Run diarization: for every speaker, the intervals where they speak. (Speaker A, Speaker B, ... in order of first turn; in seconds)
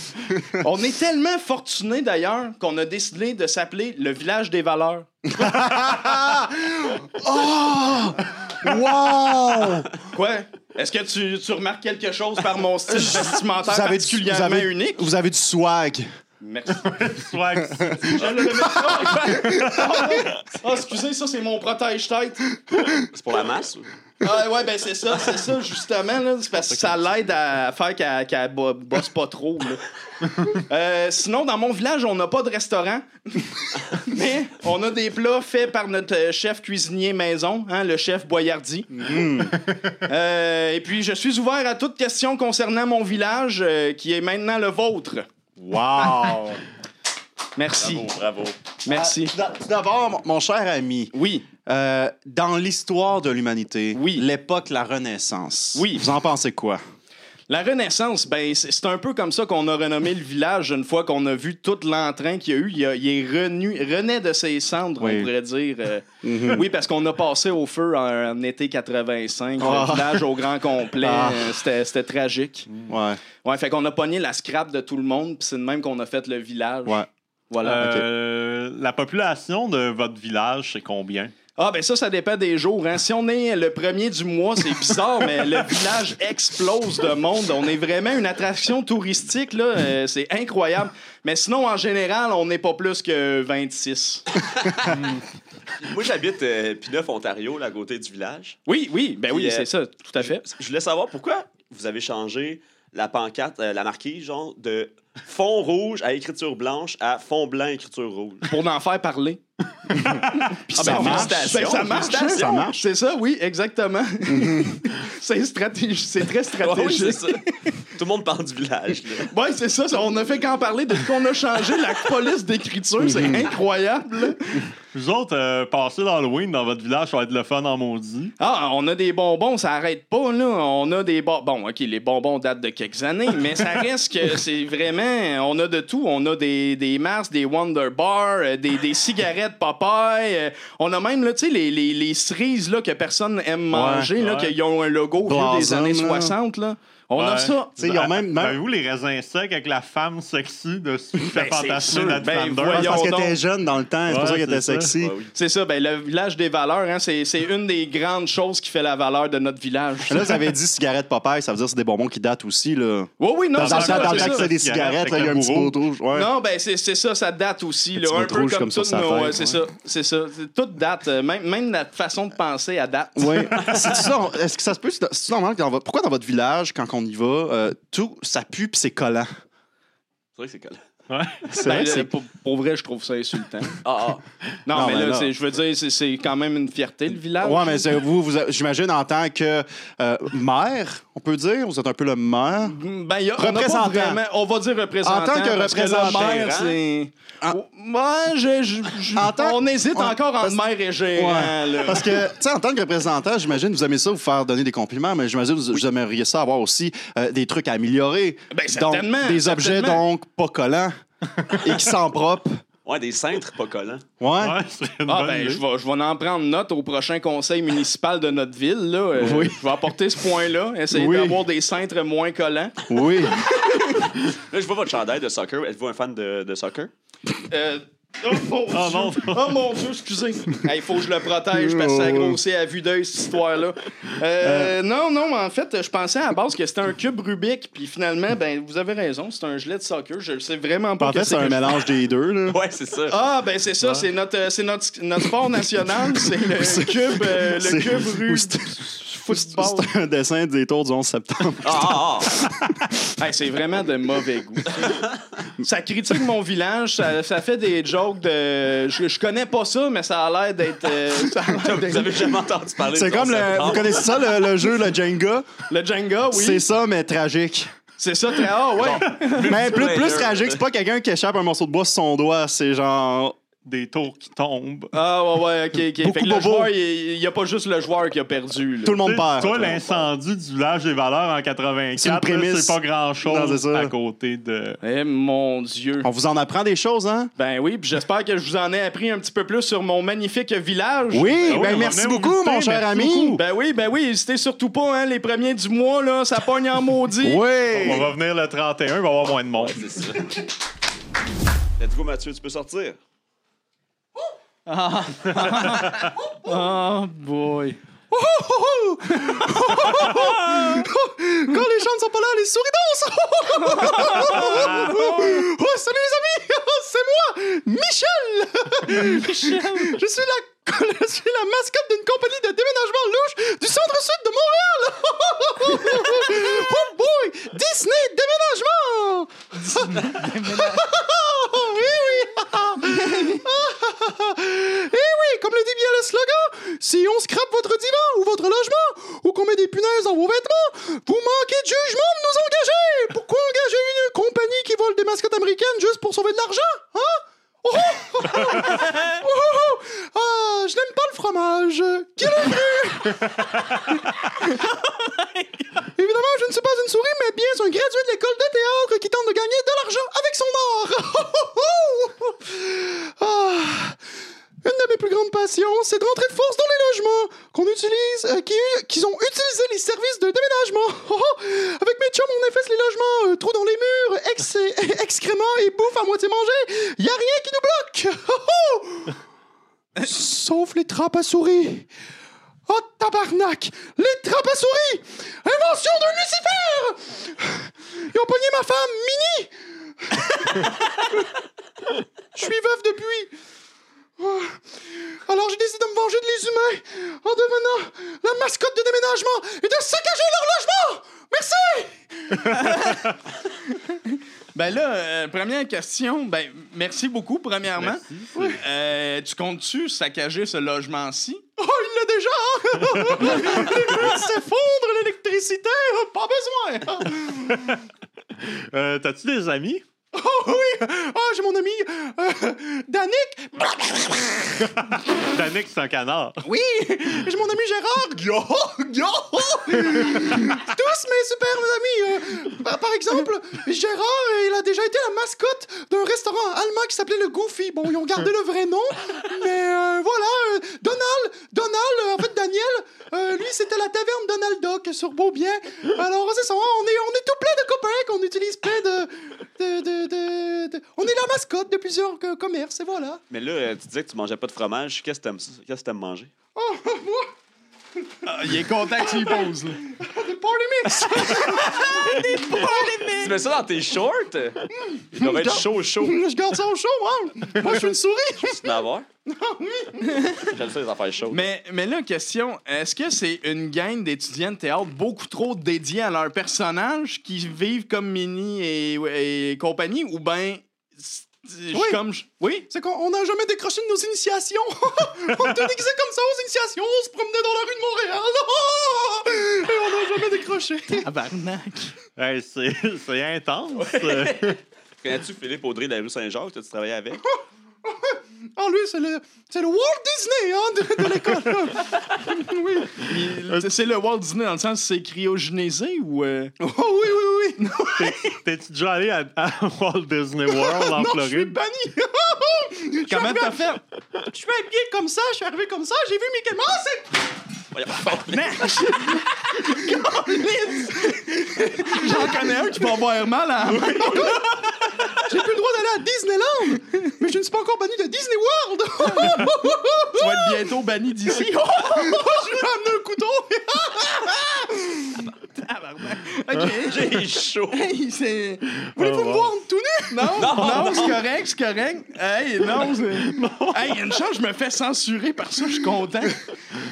Speaker A: 0.6-5.1, 10.1-15.1, 16.4-17.0, 18.1-22.5, 24.2-29.8, 30.5-39.2, 40.0-45.3, 47.6-48.1, 48.9-49.3, 51.1-51.5, 53.9-54.3, 55.8-56.1, 57.5-72.7, 73.4-77.9, 81.6-94.3, 98.7-100.4, 108.5-109.4, 110.0-117.8, 119.2-124.7, 128.4-147.8, 151.3-153.4, 155.3-160.4, 163.2-164.5, 166.1-173.6, 181.6-183.8, 184.7-188.0, 192.6-202.3, 208.5-210.0, 215.1-224.1, 227.5-241.8, 243.1-249.9, 253.2-255.0, 255.6-262.4, 265.7-266.6, 268.0-269.8, 274.9-279.8, 284.8-286.1, 287.4-291.8, 293.4-297.4, 304.7-307.8, 309.1-309.5, 313.6-315.3, 318.9-320.0, 329.7-330.9, 332.9-333.4, 402.5-403.1, 403.8-408.0, 408.5-411.5, 458.2-459.8, 461.9-463.4, 470.0-470.4, 471.3-482.7, 491.0-491.9, 503.0-506.6, 507.6-508.0, 513.1-513.8, 518.3-524.6, 529.0-529.5, 530.1-532.5, 535.2-538.7, 540.1-546.5
Speaker B: 5.3-9.9, 12.9-16.1, 17.7-20.0, 38.9-39.5, 45.9-46.4, 48.9-51.1, 51.7-56.8, 65.0-65.3, 66.2-66.7, 69.6-70.4, 71.0-71.6, 72.9-73.2, 77.8-78.0, 110.7-112.9, 114.3-114.8, 123.0-123.4, 143.7-144.1, 145.2-146.4, 147.8-148.6, 152.7-155.2, 160.1-166.3, 168.0-169.6, 173.2-179.3, 181.5-182.1, 184.7-185.3, 187.4-192.8, 193.4-194.2, 195.0-196.6, 199.1-200.6, 201.2-210.9, 211.6-212.6, 214.2-214.6, 219.2-219.6, 220.9-221.4, 222.9-223.5, 231.5-232.4, 234.4-234.8, 241.0-242.6, 246.5-252.9, 262.9-265.5, 266.3-267.7, 269.4-273.4, 276.0-276.7, 278.8-279.6, 282.0-283.9, 286.0-287.3, 291.1-293.4, 297.2-298.1, 308.1-347.1, 347.6-353.2, 356.0-363.9, 364.6-379.1, 380.1-381.9, 382.7-389.5, 390.2-390.7, 392.4-393.3, 394.2-394.5, 395.3-402.4, 411.6-417.7, 420.1-424.7, 426.5-453.2, 456.6-457.3, 460.0-463.1, 464.9-468.7, 469.6-470.0, 482.7-491.1, 497.9-502.9, 506.6-508.1, 510.6-513.6, 514.3-517.1, 519.6-521.7, 525.2-530.5, 532.0-535.1, 539.0-540.3
Speaker C: 16.8-18.7, 45.6-46.6, 77.6-81.3, 124.9-128.3, 144.2-144.5, 147.2-153.1, 154.1-154.9, 163.6-165.8, 181.1-181.5, 214.4-215.6, 228.7-229.7, 273.6-274.9, 279.0-284.8, 291.5-293.4, 297.7-299.8, 305.4-306.1, 314.5-314.9, 407.8-408.6, 413.3-413.6, 417.5-417.8, 418.4-419.9, 424.9-426.5, 492.2-494.6, 507.9-511.6, 538.9-539.5, 543.2-544.1
Speaker D: 22.9-23.9, 47.8-48.5, 94.7-94.9, 95.8-98.6, 99.3-108.5, 110.7-112.4, 116.6-119.3, 155.0-155.3, 180.4-180.8, 183.8-184.2, 196.0-196.8, 212.8-214.0, 224.3-226.9, 242.5-243.2, 251.6-252.3, 261.6-264.2, 269.0-270.6, 279.4-280.0, 299.5-300.4, 301.8-303.0, 453.3-456.3, 463.1-466.2, 468.6-469.1, 470.4-471.4, 493.8-497.2, 517.7-518.7, 536.7-537.9, 540.3-541.2